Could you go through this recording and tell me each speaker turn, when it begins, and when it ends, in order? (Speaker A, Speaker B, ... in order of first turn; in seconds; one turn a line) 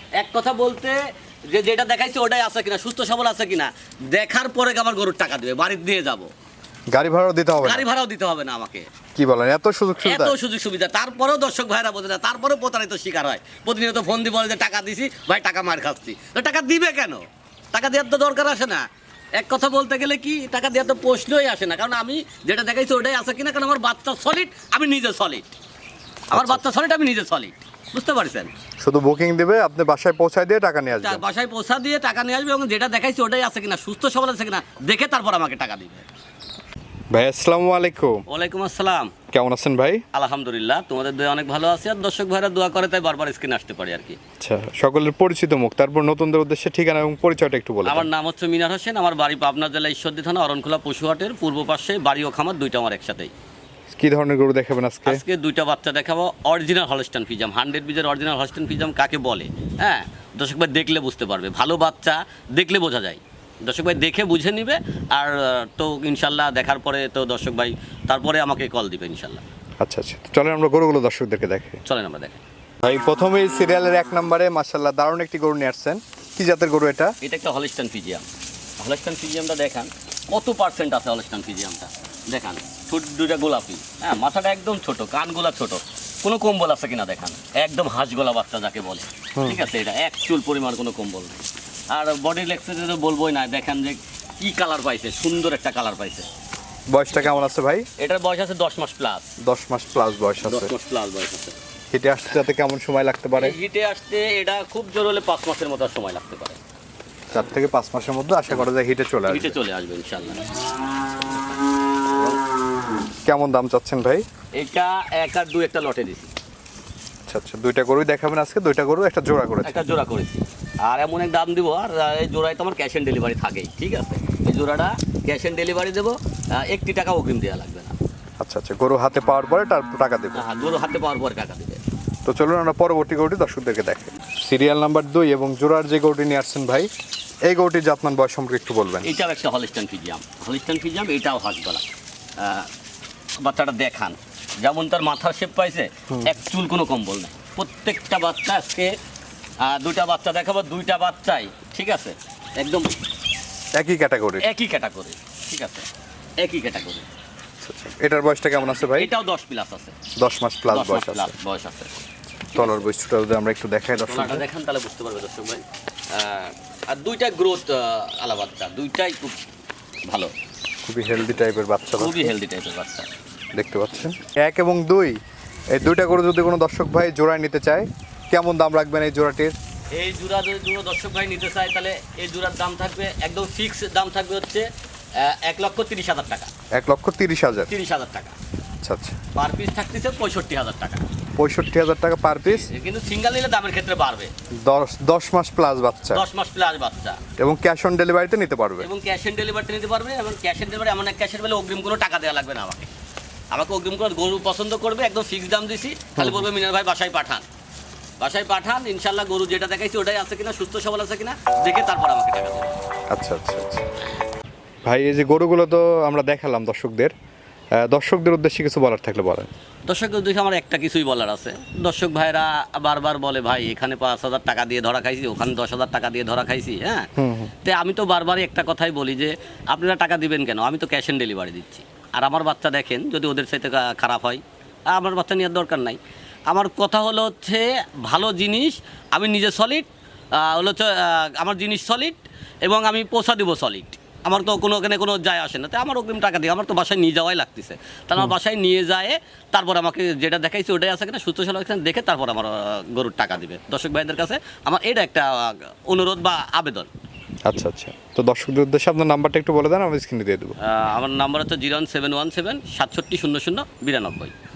Speaker A: 0.2-6.3
Speaker B: 6.9-7.9
Speaker A: 7.6-8.9
Speaker B: 9.2-10.3
Speaker A: 10.0-25.5
Speaker B: 26.3-26.6
Speaker A: 26.3-28.5
Speaker B: 28.8-31.2
Speaker A: 31.0-36.1
Speaker B: 37.1-38.2
Speaker A: 38.3-39.1
Speaker B: 39.3-40.0
Speaker A: 40.1-44.2
Speaker B: 44.4-48.1
Speaker A: 47.9-53.3
Speaker B: 53.9-55.2
Speaker A: 55.1-69.4
Speaker B: 69.8-71.8
Speaker A: 71.8-72.4
Speaker B: 72.8-77.1
Speaker A: 77.2-78.3
Speaker A: 78.8-96.3
Speaker B: 89.3-89.6
Speaker B: 96.9-97.9
Speaker A: 98.0-99.3
Speaker B: 99.4-100.7
Speaker A: 100.5-101.6
Speaker B: 101.9-103.6
Speaker A: 103.4-106.6
Speaker B: 107.3-109.5
Speaker A: 109.3-112.4
Speaker B: 113.2-114.2
Speaker A: 114.5-116.3
Speaker B: 117.3-119.8
Speaker A: 119.6-128.0
Speaker B: 128.4-130.4
Speaker A: 130.3-131.8
Speaker B: 132.2-136.9
Speaker B: 137.5-139.1
Speaker A: 139.0-141.9
Speaker A: 142.4-142.7
Speaker A: 143.4-149.0
Speaker A: 149.6-153.0
Speaker B: 153.7-154.5
Speaker A: 154.4-155.9
Speaker A: 156.4-157.1
Speaker B: 157.6-159.1
Speaker A: 158.8-160.0
Speaker B: 160.2-161.3
Speaker A: 160.7-161.9
Speaker A: 162.5-162.9
Speaker B: 162.6-164.4
Speaker A: 164.1-169.4
Speaker A: 170.1-170.3
Speaker B: 170.8-172.3
Speaker A: 171.9-173.1
Speaker B: 173.6-175.2
Speaker B: 175.7-179.6
Speaker A: 179.9-186.5
Speaker B: 186.8-187.7
Speaker A: 187.7-188.4
Speaker B: 188.8-189.2
Speaker A: 189.3-191.0
Speaker B: 191.4-192.7
Speaker A: 192.4-194.3
Speaker B: 194.6-196.2
Speaker A: 196.1-197.2
Speaker B: 197.4-198.9
Speaker A: 198.8-202.9
Speaker A: 203.5-207.4
Speaker B: 206.2-206.5
Speaker A: 208.2-212.8
Speaker B: 213.1-213.9
Speaker B: 214.8-217.1
Speaker B: 217.8-219.5
Speaker A: 219.9-227.1
Speaker B: 227.2-227.5
Speaker A: 227.6-256.9
Speaker B: 257.5-260.6
Speaker A: 260.6-264.3